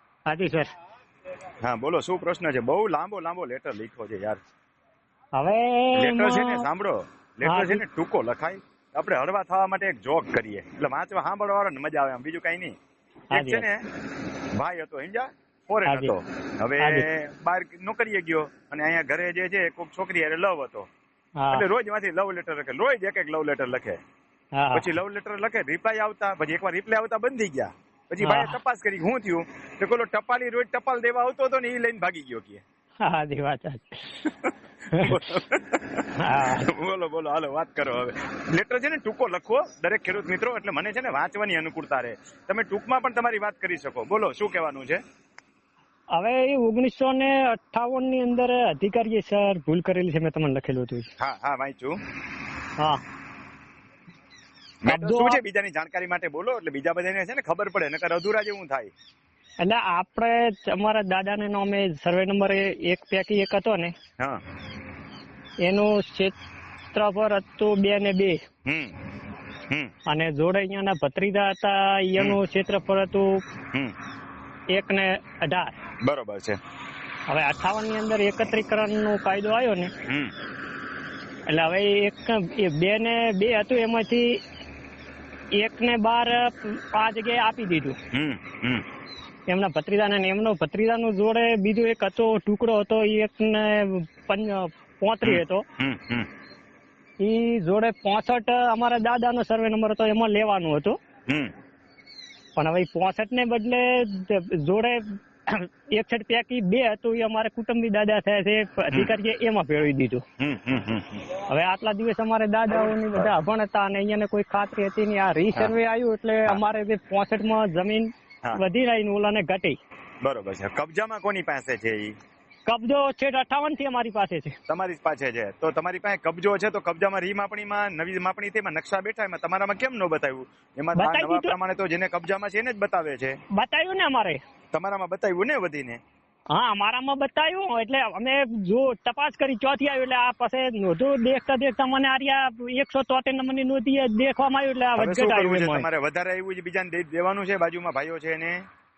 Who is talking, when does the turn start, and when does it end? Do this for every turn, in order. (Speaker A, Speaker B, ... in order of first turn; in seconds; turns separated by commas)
Speaker A: 0.3-0.7, Speaker B: 1.6-4.4, Speaker A: 5.4-6.7, Speaker B: 6.0-12.7, Speaker A: 7.4-7.8, Speaker A: 13.3-13.6, Speaker B: 13.3-13.9, Speaker B: 14.6-20.9, Speaker A: 15.9-16.1, Speaker A: 16.8-17.1, Speaker A: 21.4-21.6, Speaker B: 21.5-24.0, Speaker A: 24.6-24.9, Speaker B: 24.7-32.6, Speaker A: 28.2-28.5, Speaker A: 33.0-34.3, Speaker B: 34.2-45.0, Speaker A: 34.9-35.3, Speaker A: 36.2-36.7, Speaker A: 46.1-51.1, Speaker B: 51.2-52.0, Speaker B: 54.8-58.9, Speaker A: 54.9-55.4, Speaker A: 59.6-64.0, Speaker A: 65.6-66.4, Speaker A: 66.9-68.4, Speaker B: 68.7-69.0, Speaker A: 70.1-73.4, Speaker A: 74.7-75.8, Speaker B: 76.0-76.6, Speaker A: 77.3-79.9, Speaker B: 80.1-80.3, Speaker A: 81.5-84.4, Speaker A: 85.6-88.0, Speaker B: 88.1-88.8, Speaker A: 89.5-95.6, Speaker B: 95.2-96.3, Speaker A: 97.2-101.0, Speaker A: 102.6-110.2, Speaker B: 110.4-111.3, Speaker A: 111.3-119.8, Speaker B: 112.8-113.3, Speaker B: 120.2-122.2, Speaker A: 122.7-124.5, Speaker B: 124.7-133.4, Speaker A: 131.0-131.6, Speaker A: 133.5-134.4, Speaker B: 134.7-136.0, Speaker A: 136.5-145.9, Speaker B: 145.0-148.6